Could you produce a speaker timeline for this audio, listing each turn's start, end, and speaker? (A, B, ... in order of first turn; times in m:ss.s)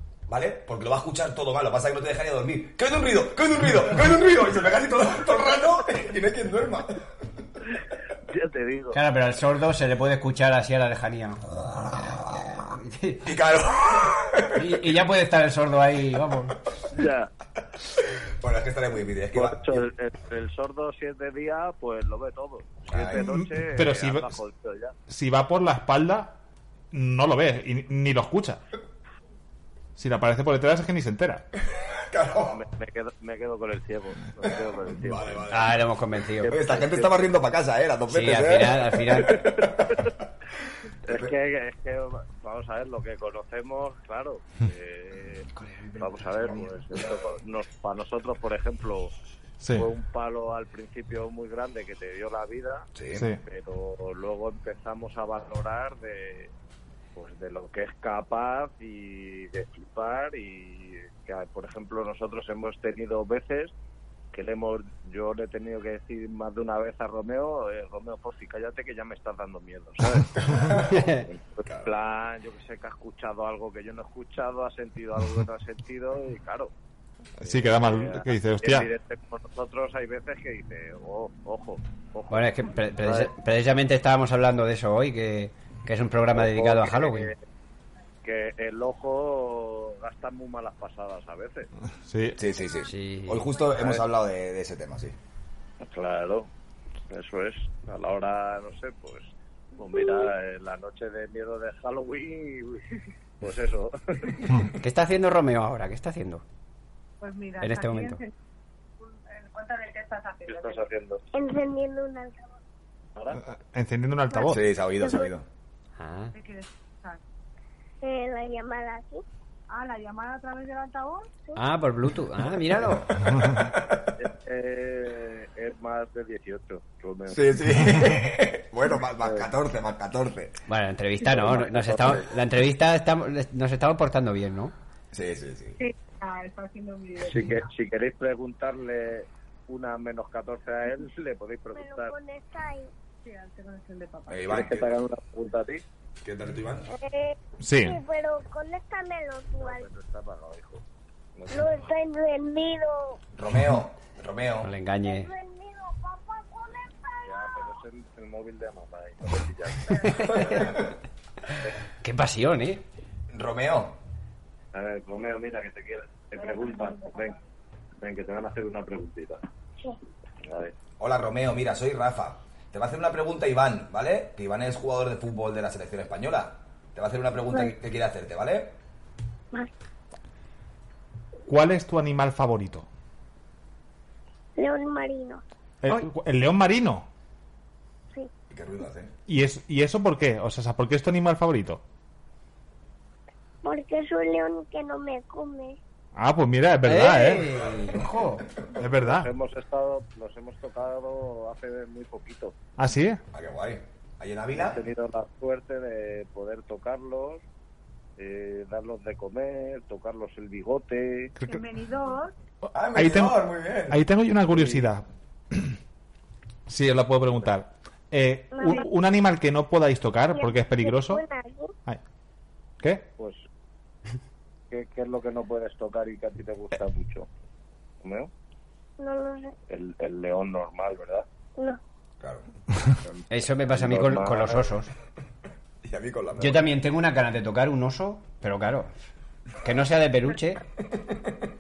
0:00.3-0:07.0 A
0:08.3-0:09.0 B
0:08.9-0:11.5 C
0:12.7-0:13.3 C
0:13.2-0:14.8 A
0:14.5-0:16.6 C
0:16.9-0:17.3 B
0:18.0-0:19.8 A
0:19.3-0:24.9 B
0:22.9-0:23.2 A
0:23.1-0:24.4 D
0:25.1-0:26.3 D
0:26.9-0:28.6 D
0:30.0-0:31.4 D
0:32.0-0:32.6 A
0:32.4-0:35.5 B
0:34.4-0:35.8 A
0:35.5-0:36.6 C
0:36.4-0:37.3 B
0:36.4-0:40.1 A
0:38.1-0:39.5 C
0:39.6-0:40.1 B
0:41.1-0:49.1 B
0:45.6-0:46.8 C
0:49.6-0:49.9 D
0:49.7-0:52.9 B
0:53.0-0:53.2 A
0:53.2-0:53.4 D
0:53.4-0:56.5 B
0:57.2-1:03.7 B
1:04.3-1:16.7 B
1:10.5-1:10.9 A
1:10.8-1:11.3 C
1:17.4-1:18.9 D
1:17.4-1:23.3 B
1:22.3-1:27.3 C
1:26.3-1:27.3 B
1:28.2-1:31.7 B
1:32.0-1:32.4 D
1:32.4-1:35.2 A
1:32.9-1:33.5 C
1:33.7-1:34.1 B
1:35.8-1:36.5 B
1:37.1-1:42.8 B
1:43.4-1:44.3 B
1:44.6-1:46.4 C
1:47.2-1:48.4 E
1:47.6-1:48.2 C
1:49.0-1:50.9 E
1:50.5-1:51.2 B
1:51.3-1:52.6 F
1:53.5-1:54.6 D
1:54.5-1:55.4 A
1:54.9-1:55.3 F
1:56.0-1:56.3 C
1:56.3-1:57.2 E
1:58.0-1:59.2 F
1:59.7-2:01.3 E
2:01.6-2:03.3 C
2:03.4-2:04.1 A
2:04.2-2:07.8 B
2:07.3-2:10.6 A
2:09.2-2:09.5 B
2:10.7-2:14.7 C
2:11.4-2:12.2 B
2:15.1-2:15.8 A
2:15.8-2:17.6 E
2:17.3-2:22.1 B
2:21.7-2:22.9 F
2:23.2-2:24.5 E
2:24.3-2:24.9 A
2:24.4-2:25.8 B
2:26.2-2:26.9 A
2:26.9-2:29.9 F
2:27.6-2:28.0 D
2:29.6-2:30.8 B
2:31.4-2:31.8 B
2:31.5-2:33.2 F
2:33.4-2:34.7 A
2:34.6-2:35.3 C
2:35.0-2:37.8 F
2:37.3-2:40.9 B
2:39.9-2:40.3 E
2:40.5-2:40.8 A
2:42.0-2:42.8 C
2:43.3-2:44.0 A
2:44.7-2:47.4 B
2:48.0-2:49.4 B
2:50.4-2:50.7 B
2:51.0-2:58.7 A
3:01.5-3:02.9 D
3:04.6-3:05.4 F
3:05.8-3:07.1 D
3:08.5-3:09.1 A
3:09.3-3:11.8 D
3:13.6-3:15.8 F
3:16.2-3:17.5 D
3:16.9-3:18.5 C
3:18.8-3:19.3 D
3:18.8-3:22.6 B
3:22.8-3:23.2 D
3:23.3-3:24.8 A
3:24.5-3:27.4 B
3:28.2-3:31.3 B
3:31.5-3:32.3 E
3:32.7-3:35.8 D
3:32.7-3:34.0 A
3:34.5-3:34.9 B
3:36.7-3:41.2 D
3:38.5-3:38.9 F
3:40.3-3:41.7 F
3:43.2-3:43.4 B
3:44.7-3:47.3 B
3:48.0-3:48.3 B
3:49.0-3:49.5 F
3:49.7-3:51.3 B
3:53.0-3:54.7 B
3:53.3-3:54.9 C
3:55.8-3:56.7 A
3:56.4-3:58.9 C
3:59.6-4:00.6 C